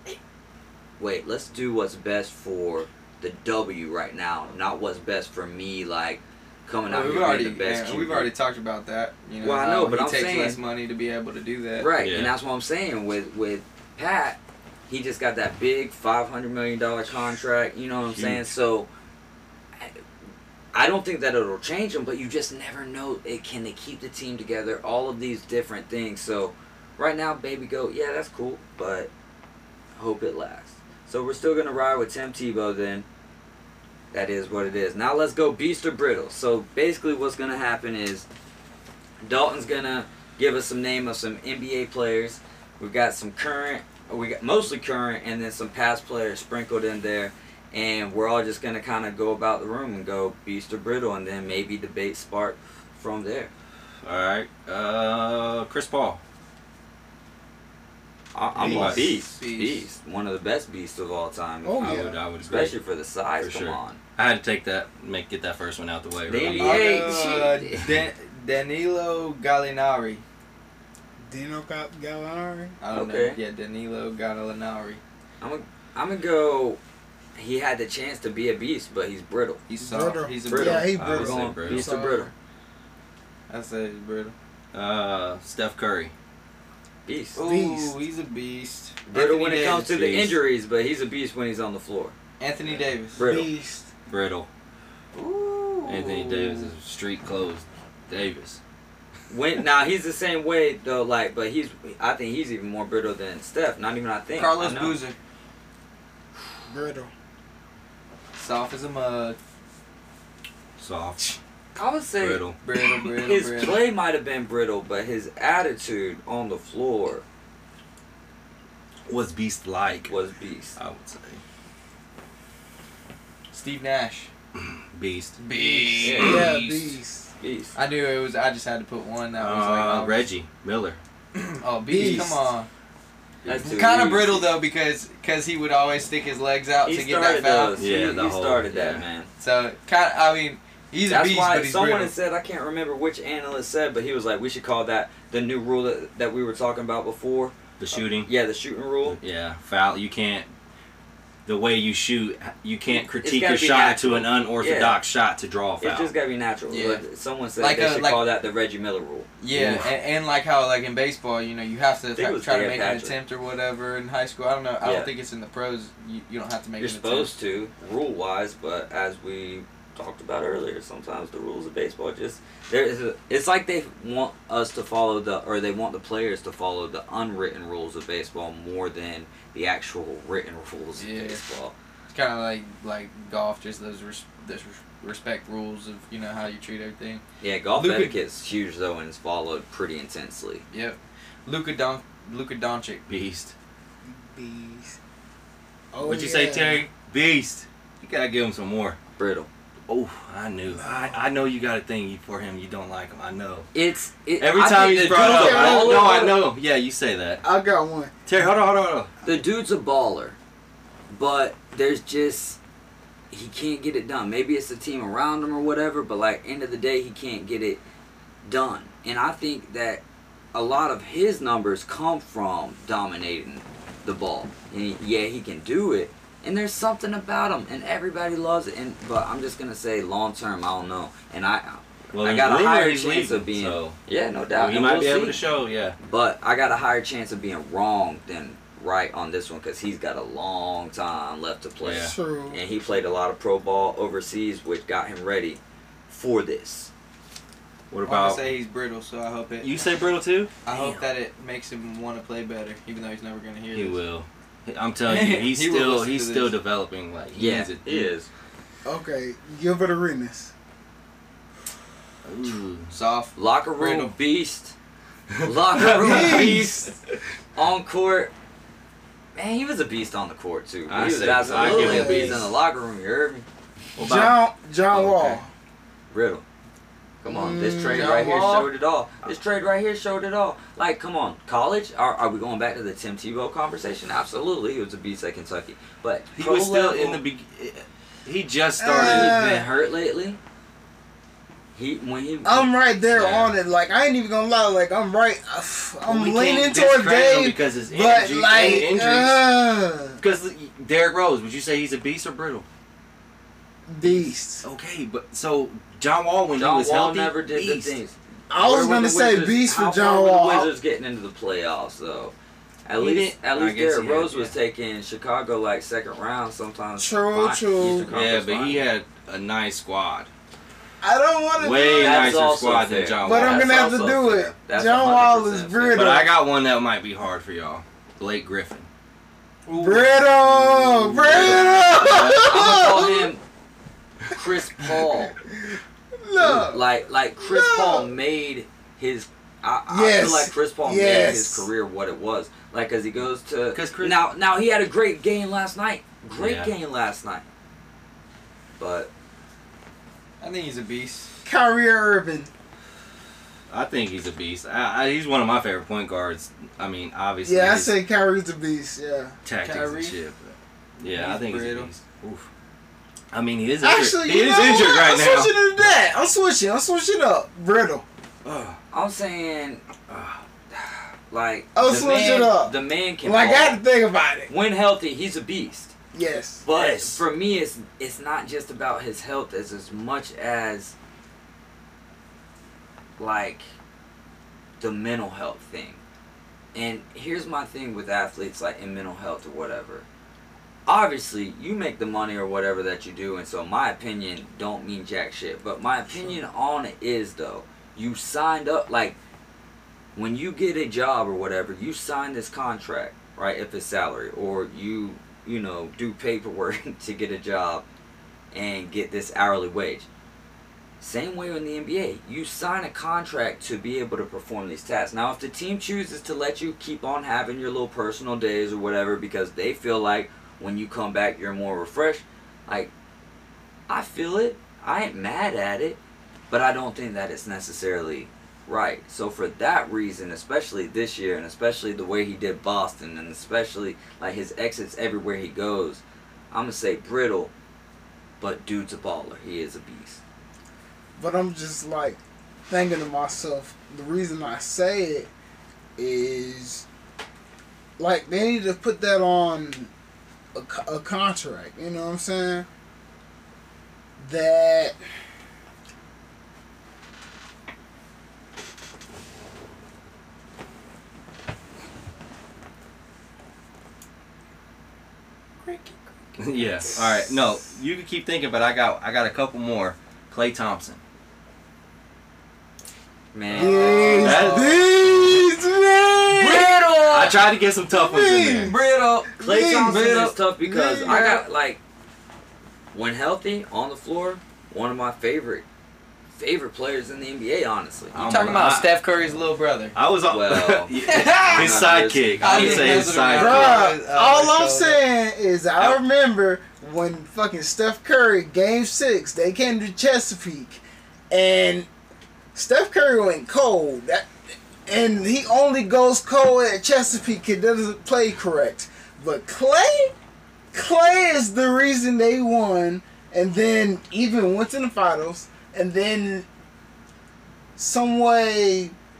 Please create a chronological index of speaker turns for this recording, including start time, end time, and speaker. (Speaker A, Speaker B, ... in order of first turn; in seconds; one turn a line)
Speaker A: 1.0-8.3
Speaker B: 6.8-11.9
Speaker A: 9.4-10.6
Speaker A: 11.8-18.9
Speaker C: 11.9-12.3
Speaker C: 18.1-18.5
Speaker A: 20.7-29.1
Speaker A: 29.9-33.0
Speaker A: 34.1-38.3
Speaker A: 39.2-53.5
Speaker C: 54.0-56.2
Speaker A: 58.3-64.0
Speaker C: 58.5-59.1
Speaker B: 58.6-59.8
Speaker D: 61.6-62.1
Speaker C: 61.8-62.8
Speaker C: 63.4-67.1
Speaker A: 66.3-67.8
Speaker B: 66.5-70.2
Speaker D: 71.2-72.8
Speaker B: 72.8-75.0
Speaker A: 72.9-73.4
Speaker A: 75.4-76.8
Speaker A: 77.3-79.6
Speaker B: 79.7-80.9
Speaker D: 79.8-82.3
Speaker A: 80.4-82.3
Speaker C: 80.9-81.9
Speaker B: 83.5-84.3
Speaker C: 84.7-86.1
Speaker A: 87.0-87.4
Speaker B: 87.3-89.9
Speaker D: 87.4-87.9
Speaker A: 89.1-92.1
Speaker C: 89.9-90.4
Speaker B: 92.4-93.2
Speaker A: 93.1-93.5
Speaker D: 93.2-93.9
Speaker C: 94.1-94.5
Speaker B: 95.1-96.7
Speaker C: 95.9-98.6
Speaker A: 99.3-105.0
Speaker B: 104.3-105.2
Speaker D: 106.7-107.1
Speaker B: 108.3-109.4
Speaker C: 110.8-111.4
Speaker A: 111.8-117.2
Speaker C: 112.2-112.6
Speaker B: 112.6-113.8
Speaker C: 119.1-120.1
Speaker A: 120.1-120.8
Speaker C: 120.8-121.4
Speaker B: 123.5-124.3
Speaker C: 124.5-127.0
Speaker B: 125.4-126.5
Speaker D: 125.5-127.3
Speaker A: 126.0-126.5
Speaker A: 127.4-127.8
Speaker B: 127.7-130.3
Speaker C: 129.4-131.0
Speaker B: 131.3-132.7
Speaker D: 131.9-132.5
Speaker A: 133.4-134.5
Speaker B: 133.6-137.8
Speaker A: 136.8-139.3
Speaker C: 137.8-139.0
Speaker B: 139.4-142.1
Speaker A: 141.1-149.2
Speaker C: 147.8-148.3
Speaker C: 149.1-150.5
Speaker C: 151.4-156.1
Speaker A: 152.9-155.0
Speaker A: 155.8-159.3
Speaker B: 156.7-157.0
Speaker B: 157.6-158.2
Speaker B: 159.4-167.3
Speaker C: 159.5-159.9
Speaker A: 162.2-163.2
Speaker A: 164.8-165.1
Speaker A: 166.8-181.7
Speaker B: 181.0-181.4
Speaker B: 182.1-187.2
Speaker A: 187.4-190.6
Speaker B: 187.7-188.2
Speaker B: 190.7-193.1
Speaker C: 193.1-193.5
Speaker D: 194.0-195.0
Speaker D: 195.9-196.8
Speaker C: 196.0-199.0
Speaker A: 199.2-199.5
Speaker C: 199.9-203.7
Speaker D: 200.7-201.2
Speaker A: 203.7-206.4
Speaker C: 204.4-207.4
Speaker D: 205.0-206.3
Speaker D: 207.4-208.1
Speaker C: 208.2-209.1
Speaker A: 209.2-210.4
Speaker A: 211.1-212.6
Speaker A: 213.3-217.8
Speaker A: 218.4-220.0
Speaker A: 220.5-235.4
Speaker C: 232.1-234.0
Speaker C: 234.5-235.9
Speaker A: 236.0-246.9
Speaker C: 241.8-242.1
Speaker D: 241.9-242.6
Speaker C: 247.9-248.4
Speaker B: 248.0-249.8
Speaker C: 249.6-250.5
Speaker B: 250.6-254.0
Speaker A: 250.7-251.0
Speaker C: 253.7-258.1
Speaker B: 255.0-256.5
Speaker A: 257.3-258.3
Speaker D: 258.8-260.5
Speaker C: 262.2-262.9
Speaker B: 262.9-264.1
Speaker A: 263.3-264.7
Speaker C: 265.4-266.6
Speaker A: 265.4-266.9
Speaker D: 266.0-266.9
Speaker A: 267.5-268.3
Speaker A: 269.3-273.4
Speaker C: 270.9-272.5
Speaker D: 271.5-272.4
Speaker C: 274.0-274.4
Speaker D: 274.0-275.5
Speaker C: 274.9-275.4
Speaker A: 276.1-276.4
Speaker A: 277.2-287.2
Speaker D: 277.2-278.2
Speaker B: 277.8-278.7
Speaker C: 286.3-289.6
Speaker D: 288.8-289.7
Speaker A: 288.9-290.4
Speaker A: 291.7-293.5
Speaker D: 292.4-300.2
Speaker C: 296.0-299.6
Speaker C: 300.2-302.6
Speaker D: 303.9-304.6
Speaker C: 304.0-308.0
Speaker A: 306.5-312.3
Speaker D: 308.5-310.7
Speaker A: 312.9-318.9
Speaker C: 313.0-314.5
Speaker D: 317.0-318.1
Speaker C: 318.1-320.3
Speaker D: 321.0-322.4
Speaker C: 321.6-323.7
Speaker A: 321.9-326.2
Speaker D: 323.2-326.4
Speaker C: 325.9-328.9
Speaker B: 329.7-331.4
Speaker D: 329.7-333.3
Speaker A: 331.2-333.4
Speaker C: 331.3-332.6
Speaker A: 334.3-335.3
Speaker D: 335.6-336.8
Speaker A: 336.7-347.4
Speaker D: 337.4-338.1
Speaker D: 339.9-341.7
Speaker C: 343.7-344.1
Speaker C: 346.4-346.7
Speaker A: 348.8-349.1
Speaker B: 350.4-351.3
Speaker D: 351.4-352.5
Speaker C: 353.7-357.9
Speaker D: 357.4-359.4
Speaker C: 359.4-362.5
Speaker B: 359.6-360.2
Speaker B: 361.0-361.9
Speaker C: 363.3-365.6
Speaker D: 363.8-368.0
Speaker C: 368.4-368.8
Speaker A: 368.9-369.8
Speaker C: 370.1-370.4
Speaker A: 371.3-373.8
Speaker D: 371.7-374.5
Speaker A: 374.5-375.9
Speaker D: 376.1-376.6
Speaker A: 376.6-380.9
Speaker C: 376.7-377.2
Speaker A: 383.2-383.6
Speaker A: 384.8-386.0
Speaker A: 386.7-390.1
Speaker A: 390.9-399.2
Speaker A: 400.1-407.8
Speaker A: 408.5-410.1
Speaker A: 411.0-422.9
Speaker A: 423.9-426.0
Speaker A: 426.5-437.5
Speaker A: 438.4-440.2
Speaker D: 441.2-445.3
Speaker D: 446.0-446.8
Speaker D: 448.0-449.9
Speaker D: 450.5-452.7
Speaker D: 454.2-454.9
Speaker B: 465.6-465.9
Speaker C: 466.4-471.0
Speaker A: 473.3-474.6
Speaker B: 473.5-474.8
Speaker D: 473.5-476.8
Speaker C: 474.1-475.3
Speaker A: 476.3-477.4
Speaker C: 477.1-478.8
Speaker D: 477.9-478.8
Speaker B: 478.6-480.4
Speaker D: 479.4-481.4
Speaker A: 479.4-481.8
Speaker A: 482.9-485.6
Speaker A: 486.4-488.2
Speaker C: 488.1-488.9
Speaker B: 488.1-489.9
Speaker C: 489.9-493.9
Speaker A: 490.3-493.2
Speaker B: 491.1-491.9
Speaker B: 492.4-495.0
Speaker D: 493.3-501.9
Speaker D: 502.5-504.3
Speaker D: 504.9-510.1
Speaker D: 510.7-516.5
Speaker D: 517.8-518.9